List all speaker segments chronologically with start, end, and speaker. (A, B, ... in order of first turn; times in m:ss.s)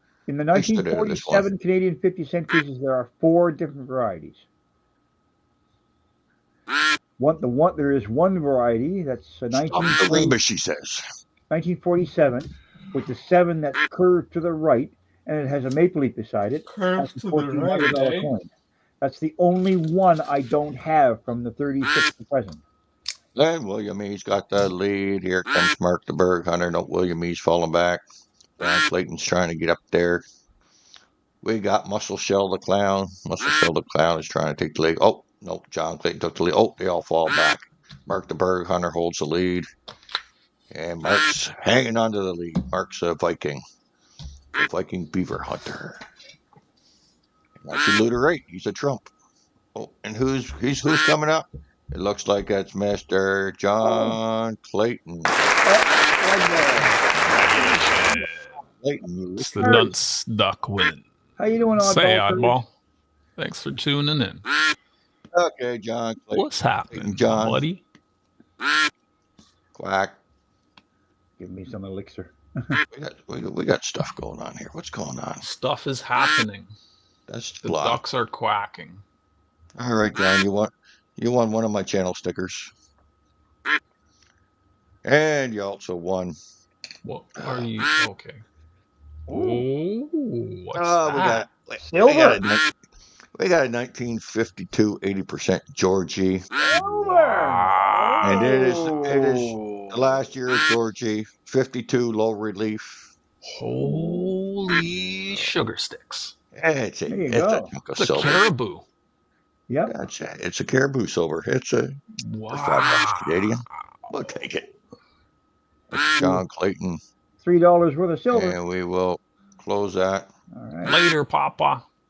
0:00.3-0:04.4 A
0:00.5-0:01.5 B
0:07.2-0:10.4 A
0:09.5-0:11.0 B
0:11.5-0:18.5 A
0:16.8-0:18.3 C
0:19.0-0:22.6 A
0:23.4-0:28.0 B
0:28.6-0:30.2 B
0:31.4-0:39.7 B
0:40.7-0:43.6 B
0:44.6-0:46.0 B
0:47.6-0:49.1 B
0:49.8-0:55.3 B
0:53.8-0:54.2 A
0:55.6-0:57.0 A
0:57.2-0:58.6 C
0:58.8-0:59.6 B
0:59.4-1:01.0 C
0:59.6-0:59.9 A
1:01.4-1:02.6 A
1:01.8-1:02.7 C
1:03.4-1:04.4 C
1:05.3-1:07.6 B
1:06.3-1:07.8 C
1:09.7-1:10.2 B
1:11.4-1:12.8 A
1:12.9-1:15.4 B
1:15.4-1:16.7 C
1:17.3-1:18.0 B
1:17.6-1:19.0 C
1:19.8-1:22.7 B
1:25.0-1:26.4 B
1:27.0-1:28.4 C
1:27.4-1:27.7 B
1:29.3-1:31.4 C
1:29.3-1:29.6 A
1:30.7-1:32.7 B
1:31.8-1:32.4 A
1:33.4-1:36.5 B
1:36.6-1:39.4 A
1:36.7-1:40.0 C
1:38.2-1:43.1 B
1:43.4-1:46.4 C
1:43.9-1:44.3 A
1:46.5-1:48.4 B
1:47.1-1:47.7 A
1:48.0-1:48.8 C
1:49.7-1:50.0 A
1:49.9-1:54.7 B
1:52.2-1:53.5 C
1:55.9-1:57.0 B
1:56.1-1:56.4 A
1:57.4-1:58.6 A
1:58.3-2:00.3 B
2:00.5-2:01.0 A
2:00.8-2:01.8 C